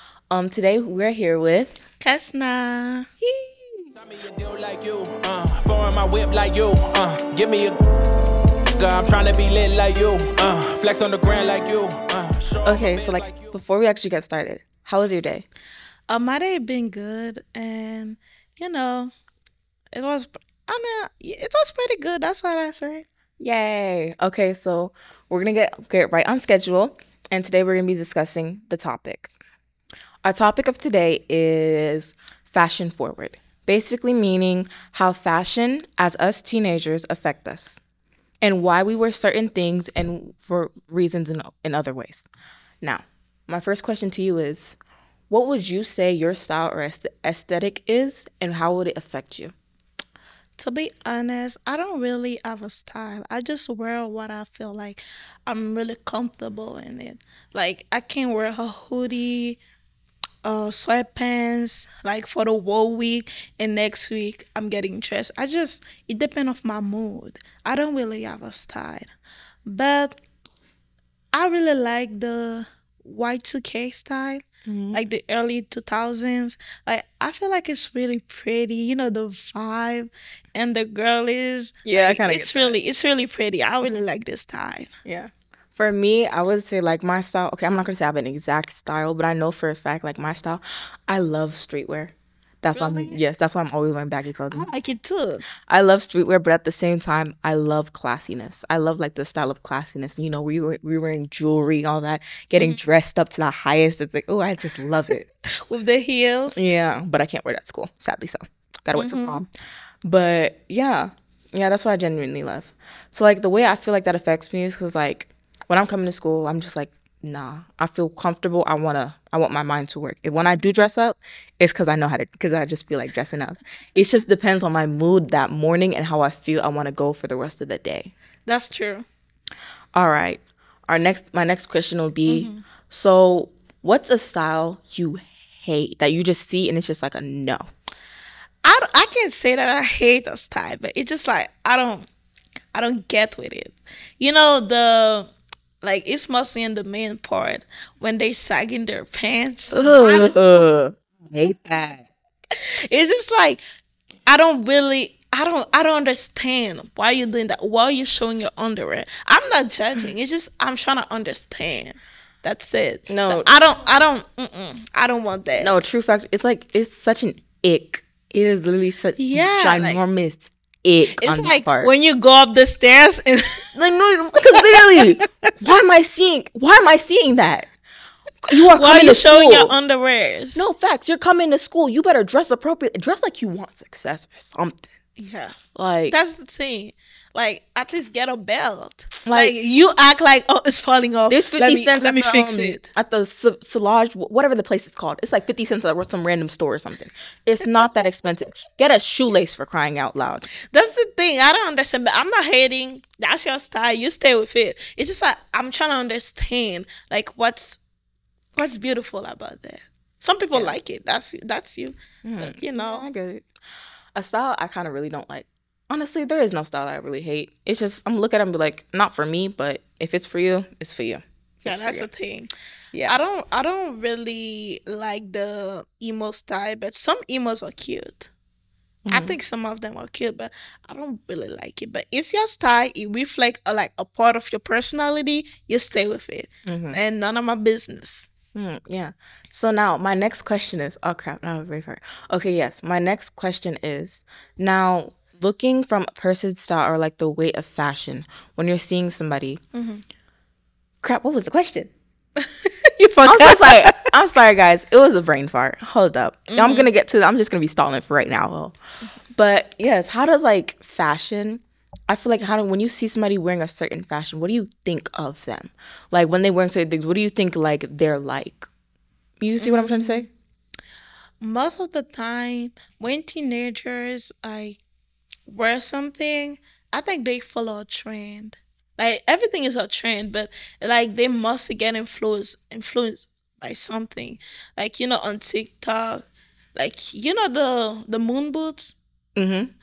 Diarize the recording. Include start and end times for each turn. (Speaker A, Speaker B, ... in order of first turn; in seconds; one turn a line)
Speaker A: 0.3-1.8
Speaker B: 2.0-3.1
Speaker A: 3.2-3.9
Speaker C: 3.9-7.8
Speaker C: 8.8-13.5
Speaker A: 12.7-15.5
Speaker B: 16.1-19.1
Speaker B: 19.9-23.1
Speaker A: 23.4-29.3
Speaker A: 30.2-37.8
Speaker A: 38.4-42.3
Speaker A: 42.8-44.8
Speaker A: 45.3-49.5
Speaker B: 50.6-59.6
Speaker B: 60.4-69.1
Speaker B: 69.7-70.2
Speaker B: 71.3-84.9
Speaker A: 74.7-75.0
Speaker A: 81.8-82.8
Speaker A: 85.0-94.7
Speaker B: 92.7-93.2
Speaker B: 94.5-95.5
Speaker A: 95.7-105.2
Speaker B: 105.7-106.6
Speaker A: 106.5-109.5
Speaker B: 108.9-109.4
Speaker A: 110.0-128.1
Speaker B: 128.5-129.1
Speaker A: 129.9-137.7
Speaker B: 132.3-132.7
Speaker B: 138.6-142.1
Speaker B: 142.7-145.3
Speaker B: 145.8-150.4
Speaker A: 149.7-152.1
Speaker B: 152.6-153.6
Speaker B: 154.3-165.8
Speaker A: 163.1-163.5
Speaker A: 165.6-171.9
Speaker B: 169.2-170.0
Speaker B: 171.2-173.8
Speaker A: 173.8-177.7
Speaker B: 174.5-175.3
Speaker A: 178.4-179.7
Speaker B: 178.5-180.6
Speaker A: 180.6-184.9
Speaker B: 185.2-185.5
Speaker A: 185.8-186.2
Speaker B: 186.1-192.8
Speaker A: 189.3-189.5
Speaker A: 191.3-200.5
Speaker B: 200.7-207.8
Speaker B: 208.6-213.1
Speaker A: 212.2-213.4
Speaker A: 214.2-222.1
Speaker B: 221.7-222.5
Speaker A: 222.9-223.2
Speaker B: 223.1-228.3
Speaker A: 229.1-229.4
Speaker B: 229.1-238.3
Speaker A: 236.7-237.0
Speaker A: 238.6-249.6
Speaker B: 249.7-250.0
Speaker A: 251.0-251.9
Speaker B: 252.6-254.0
Speaker A: 253.2-258.8
Speaker B: 256.5-256.9
Speaker A: 259.4-268.7
Speaker A: 269.4-270.3
Speaker B: 269.6-270.3
Speaker B: 271.4-274.8
Speaker B: 275.5-288.9
Speaker A: 289.4-289.7